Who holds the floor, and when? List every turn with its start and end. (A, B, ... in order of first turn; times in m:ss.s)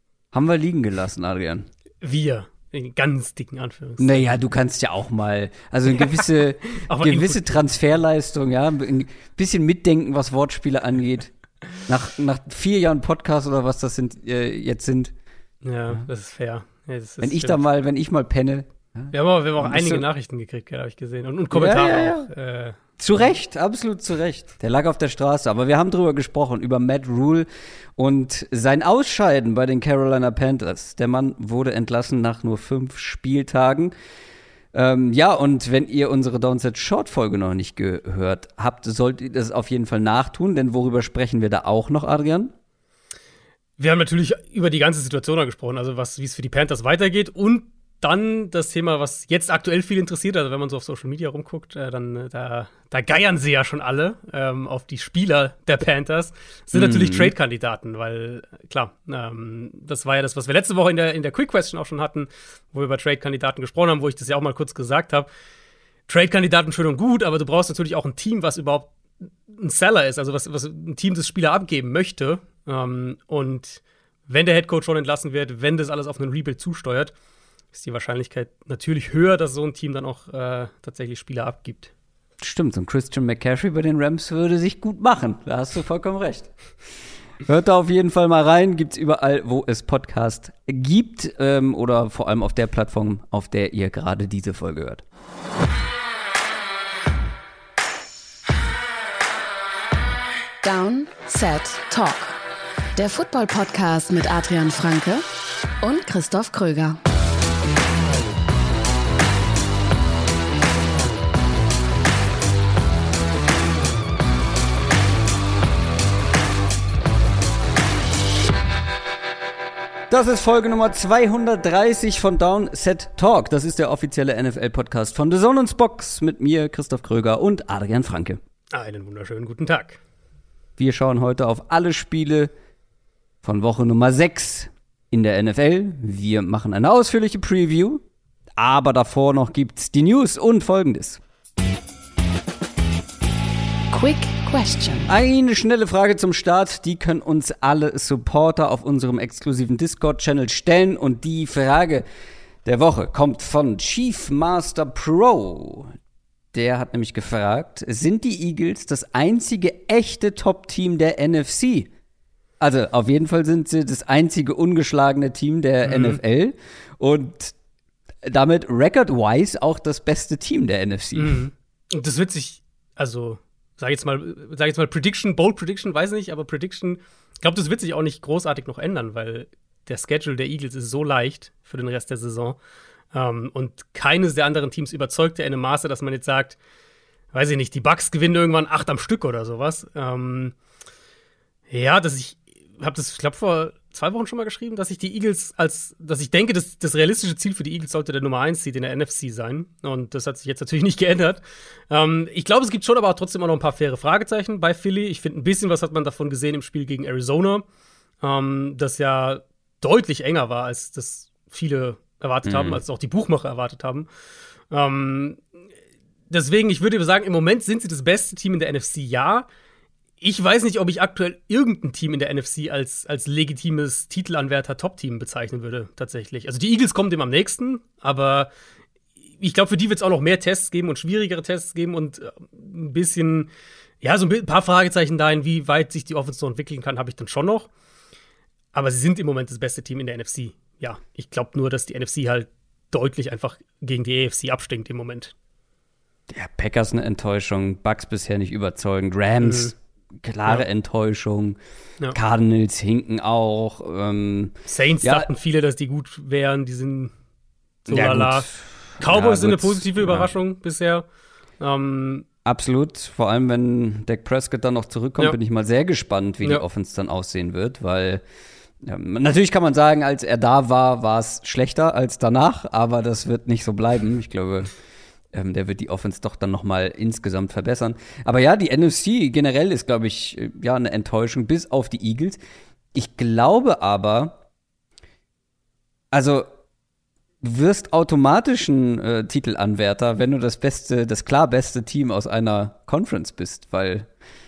0:00.3-0:01.7 A
0:02.0-0:04.4 B
0:04.0-0:11.3 A
0:06.8-0:07.6 B
0:11.8-0:15.1 A
0:15.6-0:17.6 B
0:17.2-0:20.0 A
0:19.1-0:22.8 B
0:21.5-0:22.3 A
0:23.0-0:33.9 A
0:34.7-0:42.5 A
0:43.8-1:05.3 B
0:56.7-0:57.3 A
1:06.1-1:08.9 B
1:09.5-1:17.1 B
1:17.7-1:21.9 B
1:22.4-1:26.5 A
1:27.4-1:35.0 A
1:40.6-1:42.4 C
1:42.9-1:45.2 C
1:45.8-1:47.0 C
2:00.1-2:08.4 A
2:08.7-2:10.0 B
2:10.8-2:12.5 A
2:13.4-2:18.0 A
2:18.6-2:21.2 A
2:23.9-2:25.1 C
2:25.1-2:32.0 A
2:32.6-2:35.9 A
2:36.5-2:41.9 A
2:42.6-2:47.5 A
2:45.8-2:46.2 B
2:48.2-2:51.4 A
2:51.2-3:02.6 B
3:03.1-3:06.6 B
3:07.3-3:10.5 B
3:11.7-3:27.6 B
3:28.2-3:34.1 B
3:32.4-3:32.8 A
3:34.7-3:35.4 B
3:36.3-3:39.5 B
3:40.2-3:48.5 B
3:49.4-3:53.5 B
3:54.0-3:57.7 B
3:58.7-4:05.3 B
4:06.3-4:11.6 A
4:09.4-4:09.7 B
4:12.1-4:15.3 A
4:14.7-4:17.1 B
4:17.8-4:18.5 B
4:17.9-4:20.3 A
4:19.0-4:21.0 B
4:21.6-4:22.2 B
4:22.4-4:28.2 A
4:28.8-4:34.7 A
4:35.3-4:42.4 A
4:42.9-4:44.4 A
4:46.1-4:46.5 A
4:47.4-4:54.1 A